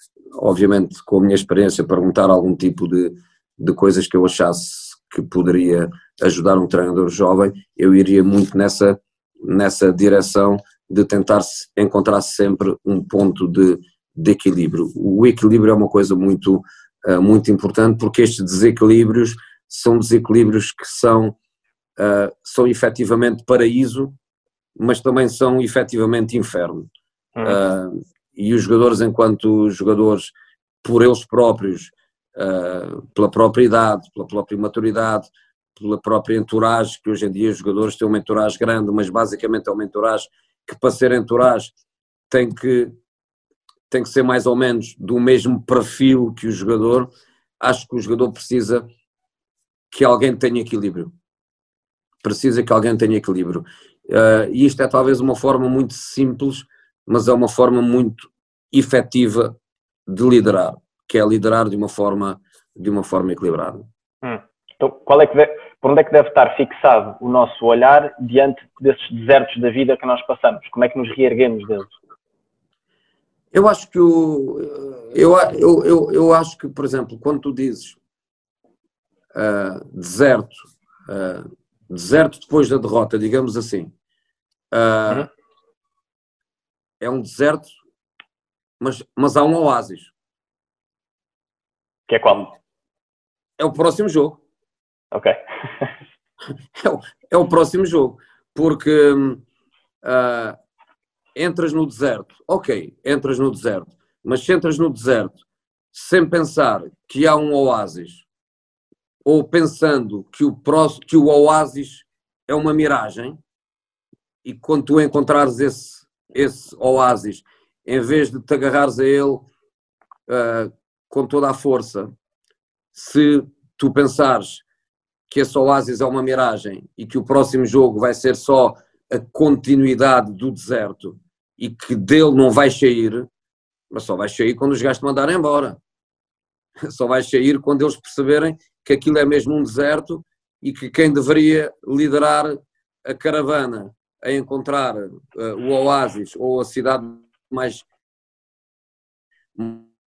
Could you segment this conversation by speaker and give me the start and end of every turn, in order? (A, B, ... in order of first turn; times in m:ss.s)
0:00.4-0:21.4 A
0:22.0-0:24.2 A
0:24.8-0:26.9 A
0:27.4-0:41.7 A
0:42.3-0:42.9 A
0:43.9-0:48.8 A
0:49.9-0:51.1 A
0:52.2-0:59.6 A
1:00.1-1:03.8 A
1:04.2-1:11.9 B
1:13.5-1:18.0 A
1:19.3-1:23.9 A
1:24.7-1:25.3 A
1:27.0-1:27.8 A
1:28.8-1:30.1 A
1:32.1-1:32.5 B
1:33.6-1:34.4 A
1:35.1-1:35.9 B
1:36.8-1:39.4 A
1:40.0-1:40.6 A
1:41.3-1:45.4 A
1:45.9-1:48.2 A
1:49.2-1:53.4 A
1:54.4-1:59.4 A
2:00.3-2:02.1 A
2:02.9-2:04.6 A
2:05.3-2:13.3 A
2:13.9-2:15.8 A
2:16.8-2:27.8 A
2:29.5-2:29.9 A